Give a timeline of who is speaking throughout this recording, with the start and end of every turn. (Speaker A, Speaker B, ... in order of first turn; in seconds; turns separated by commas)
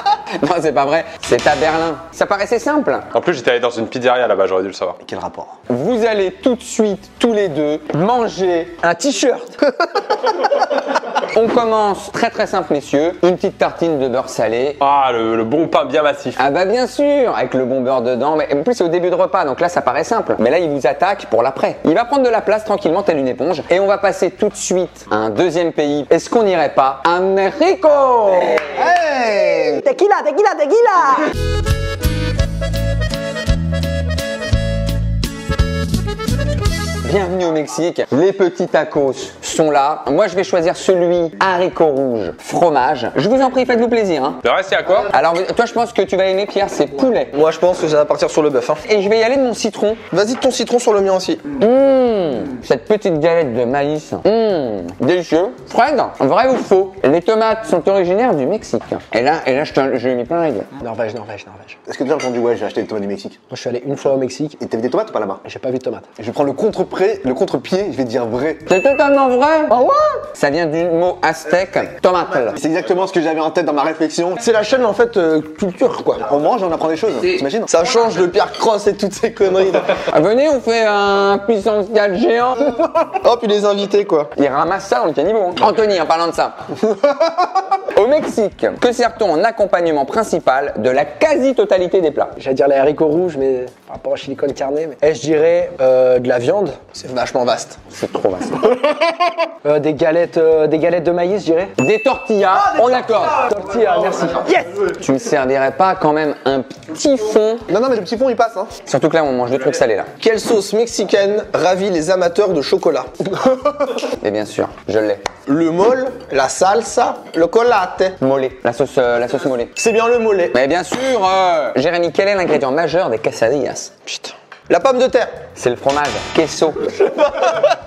Speaker A: 0.3-3.0, Speaker B: 3.1-5.0, Speaker C: 5.0-5.6, Speaker A: 5.7-8.8, Speaker D: 8.8-9.6, Speaker A: 11.2-14.8, Speaker B: 14.8-16.4, Speaker A: 16.4-28.6, Speaker C: 28.7-29.8, Speaker D: 29.8-31.3, Speaker A: 37.0-44.4, Speaker B: 44.4-45.1, Speaker A: 45.1-47.3, Speaker E: 47.3-48.8, Speaker A: 48.9-50.0, Speaker E: 50.1-51.4, Speaker A: 51.6-60.7, Speaker D: 60.8-61.8, Speaker C: 61.9-63.4, Speaker D: 63.5-64.6, Speaker C: 64.6-65.4, Speaker D: 65.4-66.1, Speaker C: 66.2-68.7, Speaker A: 68.7-69.7, Speaker E: 69.7-70.2, Speaker A: 70.3-72.6, Speaker C: 72.6-74.4, Speaker E: 74.4-76.2, Speaker C: 76.2-77.8, Speaker E: 77.7-80.0, Speaker A: 80.1-82.9, Speaker E: 83.0-84.3, Speaker A: 84.3-86.7, Speaker A: 87.9-92.3, Speaker D: 92.3-96.8, Speaker E: 96.8-97.8, Speaker A: 97.9-98.8, Speaker D: 99.6-101.7, Speaker A: 101.8-103.5, Speaker D: 103.4-104.9, Speaker A: 104.9-107.6, Speaker C: 107.7-108.8, Speaker A: 108.8-110.1, Speaker E: 110.2-113.6, Speaker A: 114.2-115.3, Speaker E: 115.5-118.2, Speaker A: 118.2-119.7, Speaker E: 119.8-120.5, Speaker A: 120.5-123.9, Speaker E: 124.0-125.3, Speaker A: 125.5-127.0, Speaker E: 127.1-127.7